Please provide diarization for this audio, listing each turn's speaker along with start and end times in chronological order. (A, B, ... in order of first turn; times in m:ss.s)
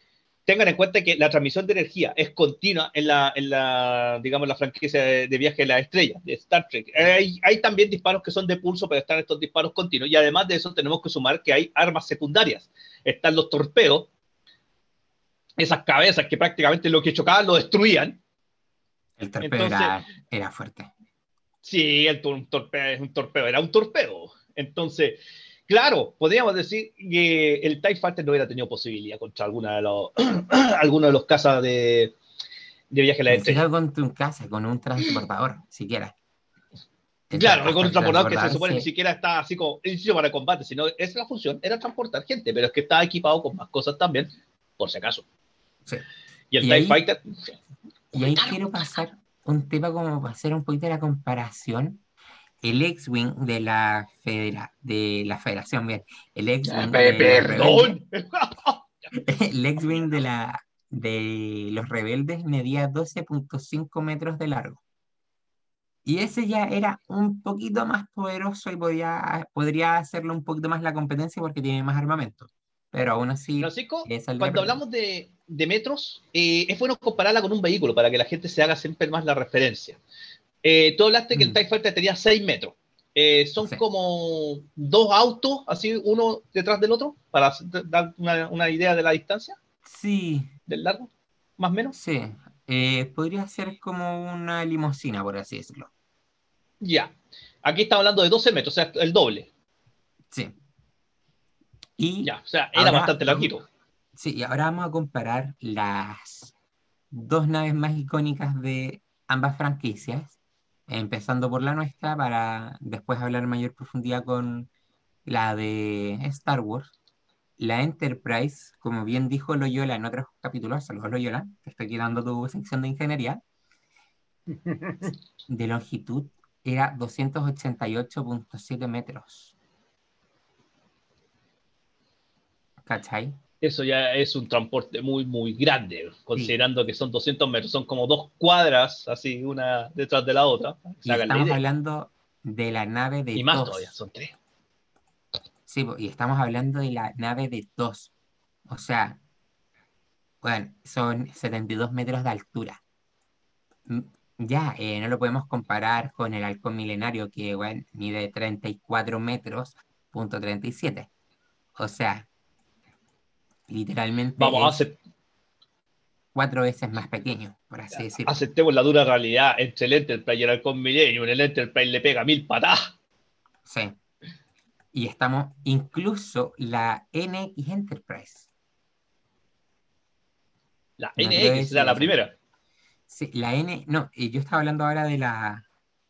0:00.4-0:14.1 A
0:15.6-0:18.2 A
0:19.2-0:20.9 B
0:19.4-0:20.0 A
0:21.6-0:32.1 A
0:32.9-0:33.6 A
0:33.3-0:36.1 B
0:37.3-0:38.9 B
0:37.3-0:45.2 A
0:46.5-0:47.5 A
0:46.6-0:47.0 B
0:48.1-0:52.0 B
0:52.6-0:58.0 B
0:56.7-0:59.1 A
0:59.1-1:04.8 B
1:06.0-1:14.8 B
1:13.6-1:20.0 A
1:20.6-1:29.6 A
1:21.3-1:21.6 B
1:29.8-1:30.5 B
1:30.7-1:31.9 A
1:31.9-1:35.9 B
1:36.8-1:39.5 A
1:40.3-1:40.6 B
1:42.0-1:43.5 B
1:42.2-1:43.6 A
1:44.2-1:46.5 B
1:47.1-1:50.4 B
1:50.9-1:54.7 B
1:55.2-1:56.9 B
1:57.6-2:03.4 B
2:04.7-2:05.1 A
2:05.5-2:09.5 B
2:12.8-2:13.4 B
2:13.6-2:21.6 A
2:21.0-2:23.9 B
2:23.4-2:24.3 A
2:25.7-2:28.1 B
2:28.7-2:29.2 B
2:30.4-2:32.8 B
2:33.9-2:41.1 B
2:41.8-2:42.3 B
2:43.7-2:44.8 B
2:44.4-2:45.0 A
2:46.3-2:48.4 B
2:48.2-2:52.9 A
2:53.6-2:54.0 B
2:54.9-2:58.5 B
3:01.0-3:02.3 A
3:01.2-3:02.1 B
3:03.1-3:05.6 B